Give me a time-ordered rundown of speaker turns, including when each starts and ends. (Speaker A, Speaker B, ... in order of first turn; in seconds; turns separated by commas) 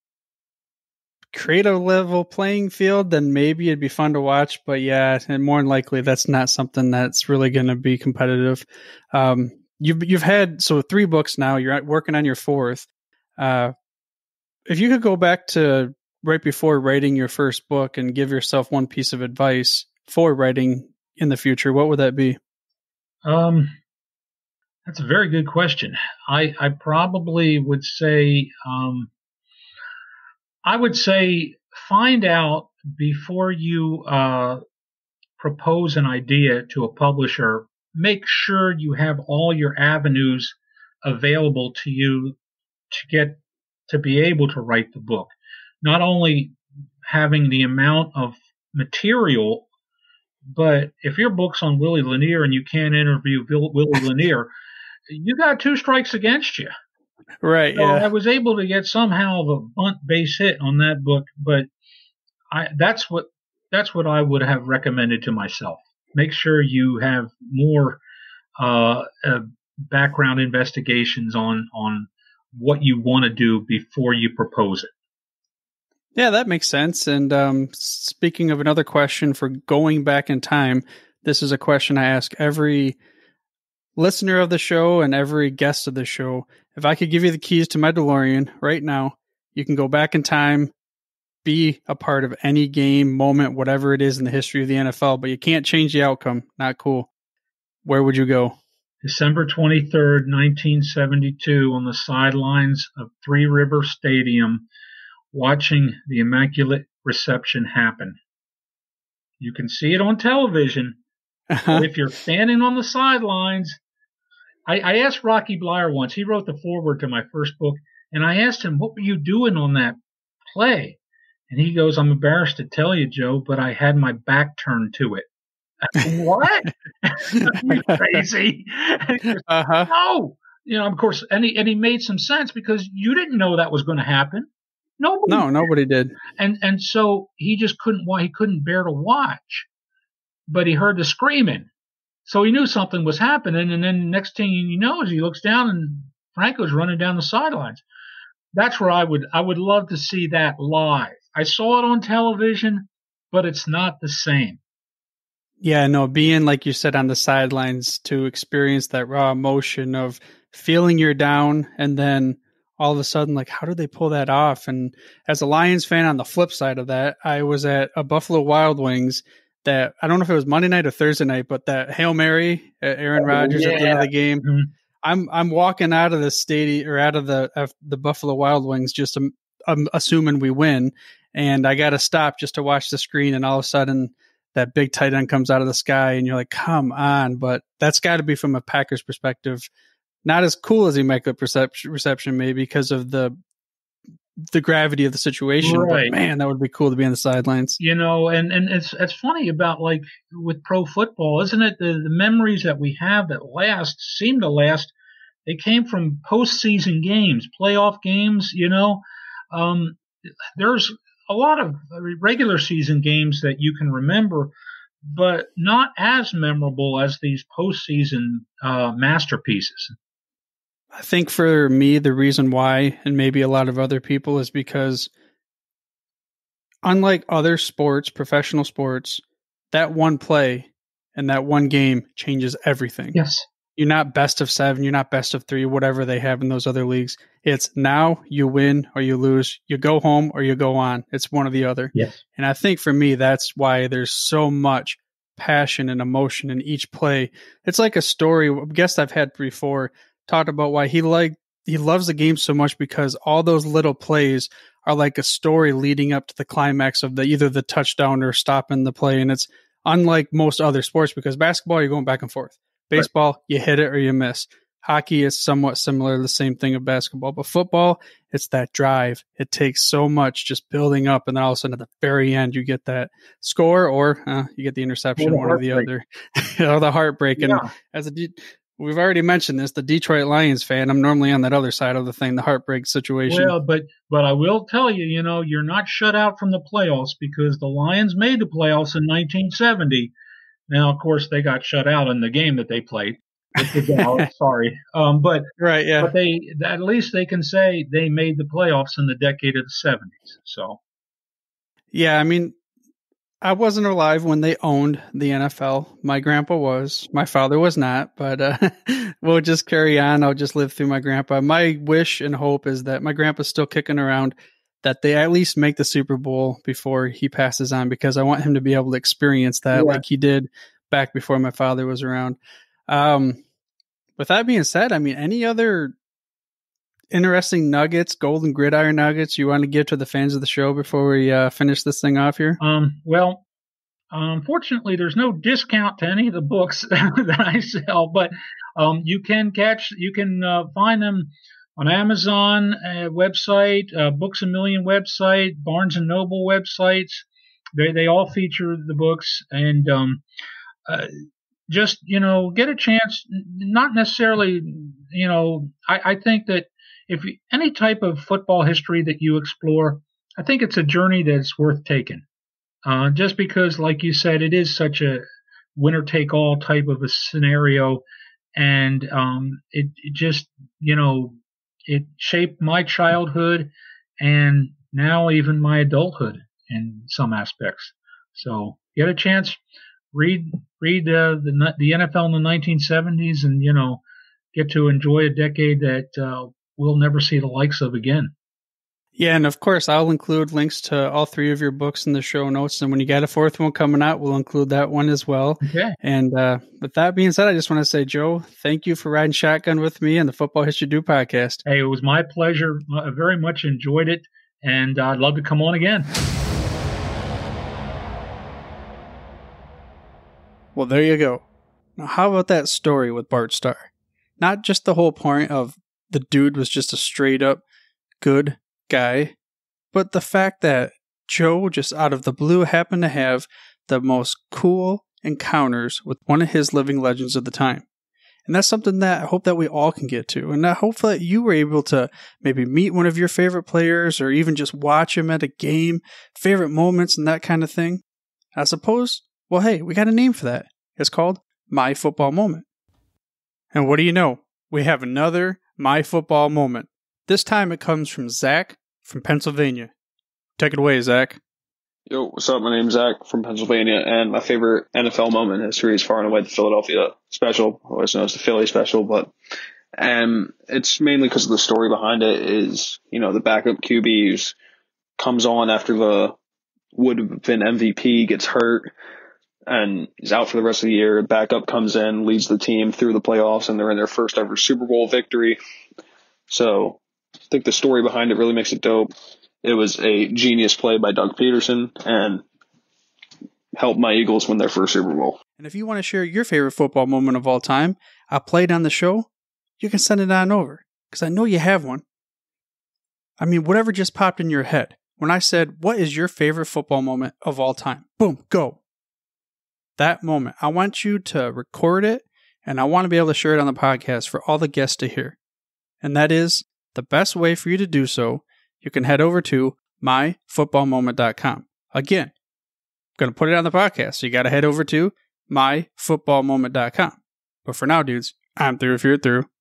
Speaker A: 1.3-13.7, Speaker A: 14.7-22.4, Speaker B: 23.2-23.8, Speaker B: 24.9-29.1, Speaker B: 30.6-34.6, Speaker B: 35.4-42.4, Speaker B: 42.9-49.7, Speaker B: 50.5-54.5, Speaker B: 55.1-56.7, Speaker A: 57.4-58.1, Speaker B: 57.8-61.7, Speaker B: 62.5-68.0, Speaker B: 68.6-74.9, Speaker A: 76.2-83.0, Speaker A: 84.0-90.7, Speaker A: 91.4-97.1, Speaker A: 97.8-98.6, Speaker B: 99.0-104.7, Speaker B: 105.3-108.2, Speaker B: 109.4-111.0, Speaker A: 111.5-111.9, Speaker B: 111.7-113.8, Speaker B: 114.7-120.0, Speaker B: 120.5-121.0, Speaker B: 121.5-125.3, Speaker B: 125.8-135.5, Speaker A: 127.3-128.1, Speaker A: 129.5-129.9, Speaker A: 135.3-136.2, Speaker B: 136.4-139.7, Speaker B: 140.5-141.7, Speaker B: 142.3-147.8, Speaker B: 148.5-154.6, Speaker A: 155.6-174.4, Speaker B: 173.2-174.7, Speaker A: 175.0-189.7, Speaker A: 190.2-193.4, Speaker A: 194.5-197.8, Speaker B: 195.6-196.2, Speaker B: 197.8-204.9, Speaker B: 205.4-214.5, Speaker B: 215.0-220.0, Speaker A: 220.9-225.1, Speaker A: 226.8-233.2, Speaker B: 233.1-233.5, Speaker A: 233.8-283.6, Speaker B: 275.2-275.9, Speaker B: 277.4-277.7, Speaker B: 283.3-290.1, Speaker B: 290.7-300.8, Speaker A: 293.6-294.3, Speaker A: 295.6-296.1, Speaker A: 301.9-302.6, Speaker A: 303.4-323.4, Speaker B: 319.7-320.0, Speaker A: 324.2-325.9, Speaker A: 327.1-332.6, Speaker B: 332.6-333.4, Speaker B: 334.1-350.2, Speaker B: 351.7-362.2, Speaker B: 362.9-368.0, Speaker B: 368.6-379.6, Speaker B: 380.1-384.0, Speaker B: 384.5-388.3, Speaker A: 389.2-401.6, Speaker B: 395.6-396.0, Speaker B: 401.7-406.1, Speaker A: 410.8-411.4, Speaker A: 412.0-417.6, Speaker A: 418.2-419.4, Speaker A: 419.9-427.9, Speaker A: 428.5-438.0, Speaker A: 438.6-442.7, Speaker A: 443.7-449.9, Speaker A: 450.6-451.4, Speaker C: 452.1-459.3, Speaker C: 460.0-464.6, Speaker C: 465.2-466.4, Speaker C: 466.9-468.9, Speaker C: 469.7-475.6, Speaker C: 476.5-479.1, Speaker C: 479.6-482.4, Speaker C: 483.8-485.4, Speaker A: 485.6-489.3, Speaker A: 489.8-492.0, Speaker A: 493.4-498.8, Speaker A: 500.0-505.4, Speaker A: 506.0-512.3, Speaker A: 513.2-519.5